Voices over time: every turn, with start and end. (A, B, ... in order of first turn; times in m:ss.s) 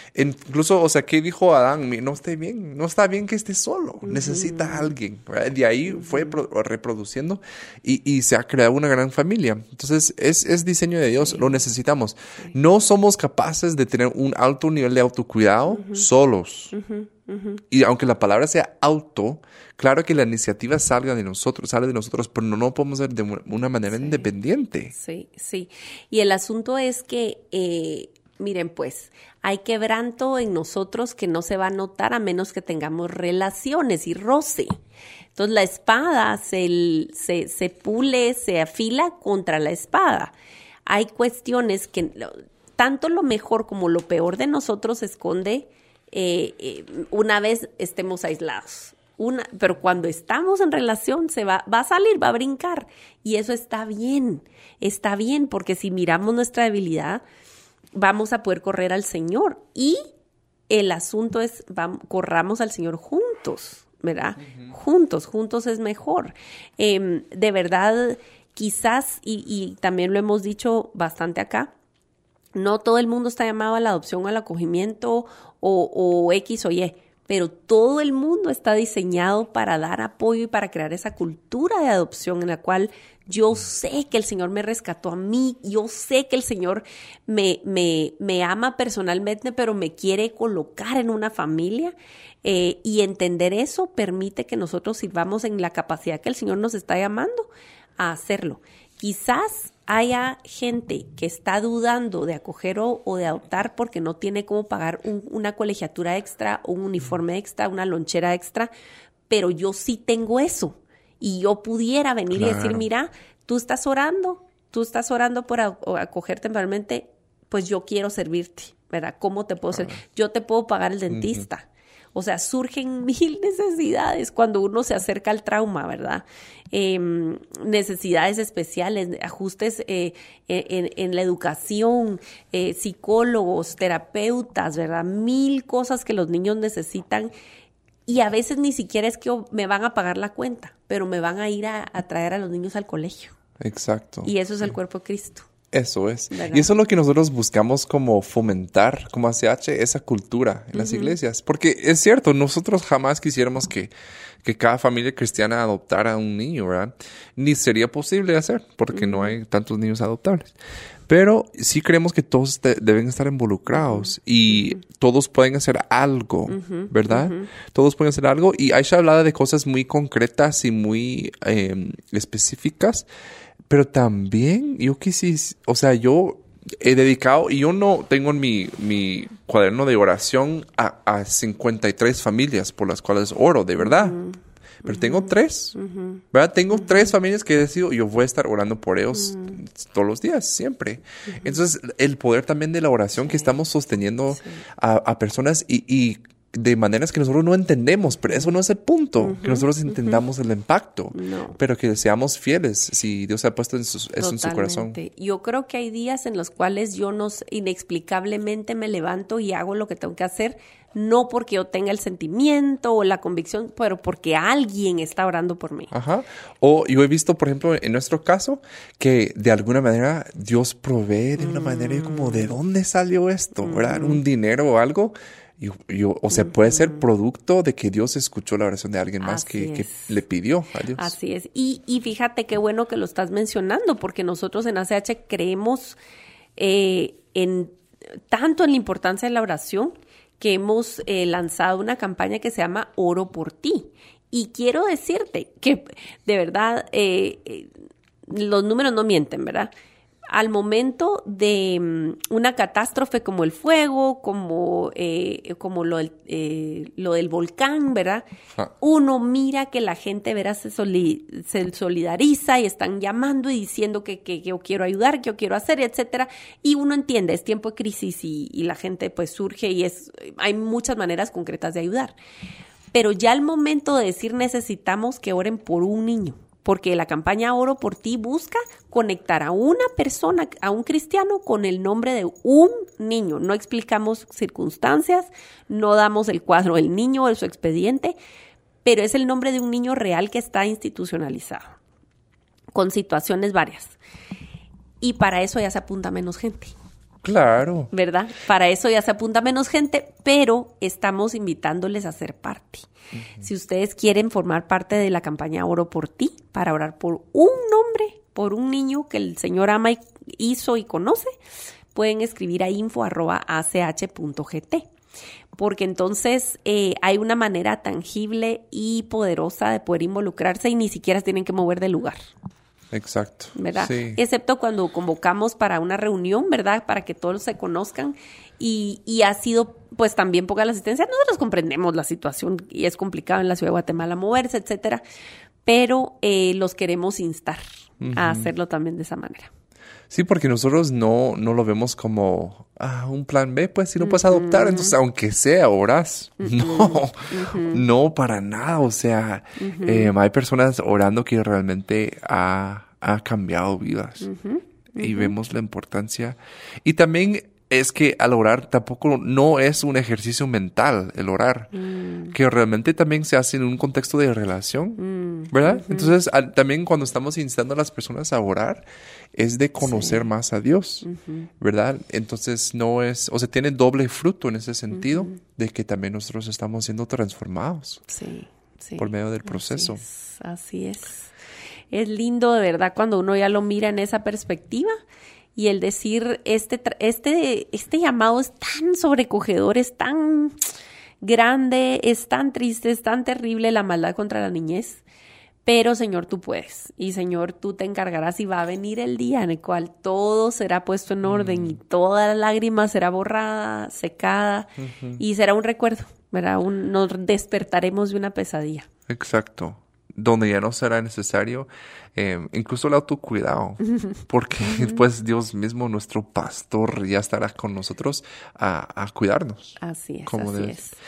0:00.2-0:16.7 A
0:04.0-0:04.9 B
0:05.9-0:06.3 B
0:11.2-0:11.6 B
0:15.7-0:16.0 B
0:16.7-0:17.6 B
0:17.7-0:24.9 A
0:23.9-0:24.3 B
0:25.0-0:34.7 B
0:35.4-0:40.3 B
0:40.9-0:57.2 B
0:57.9-1:00.0 B
1:00.7-1:11.7 B
1:04.4-1:04.7 A
1:12.6-1:48.7 B
1:49.3-2:17.3 B
1:52.3-1:52.8 A
1:59.7-2:00.0 A
2:01.1-2:01.5 A
2:18.1-2:23.4 B
2:23.6-2:24.3 A
2:24.2-2:25.5 B
2:25.7-2:33.9 A
2:26.3-2:26.7 B
2:30.7-2:31.2 B
2:34.4-2:40.6 A
2:38.9-2:39.4 B
2:41.1-2:53.1 A
2:43.7-2:44.8 B
2:46.5-2:47.5 B
2:53.7-3:04.2 A
3:03.8-3:06.2 B
3:04.8-3:05.8 A
3:06.3-3:25.0 A
3:06.7-3:07.1 B
3:09.1-3:09.6 B
3:11.3-3:11.6 B
3:13.2-3:13.5 B
3:14.3-3:14.6 B
3:19.2-3:20.2 B
3:21.1-3:21.6 B
3:24.2-3:35.9 B
3:35.9-3:51.1 A
3:41.4-3:42.5 B
3:43.6-3:44.2 B
3:46.3-3:47.0 B
3:49.2-3:50.1 B
3:51.0-3:56.0 B
3:56.6-3:57.8 B
3:58.3-4:07.7 B
4:08.3-4:09.7 B
4:10.3-4:18.3 B
4:18.8-4:32.2 B
4:32.9-4:48.2 B
4:48.8-4:51.8 B
4:52.7-4:54.0 B
4:55.0-4:56.7 B
4:57.2-4:57.9 A
4:57.9-5:02.9 B
5:03.2-5:03.4 A
5:03.4-5:11.3 B
5:11.9-5:14.9 B
5:15.6-5:22.2 B
5:22.9-5:24.2 A
5:23.6-5:35.0 B
5:35.6-5:39.5 B
5:38.0-5:38.5 A
5:40.1-5:54.3 A
5:44.0-5:45.0 B
5:46.4-5:47.8 B
5:49.6-5:50.1 B
5:54.2-5:55.4 B
5:55.0-6:01.7 A
6:01.7-6:02.4 B
6:02.3-6:11.1 A
6:05.0-6:06.1 B
6:09.8-6:10.3 B
6:11.0-6:11.5 B
6:11.6-6:18.0 A
6:14.9-6:15.4 B
6:18.1-6:21.3 B
6:19.0-6:20.0 A
6:21.9-6:24.9 B
6:25.6-6:30.6 B
6:31.2-6:35.0 B
6:35.6-6:48.9 B
6:41.2-6:41.8 A
6:44.8-6:45.2 A
6:49.1-7:00.8 A
6:53.8-6:55.0 B
6:59.8-7:01.0 B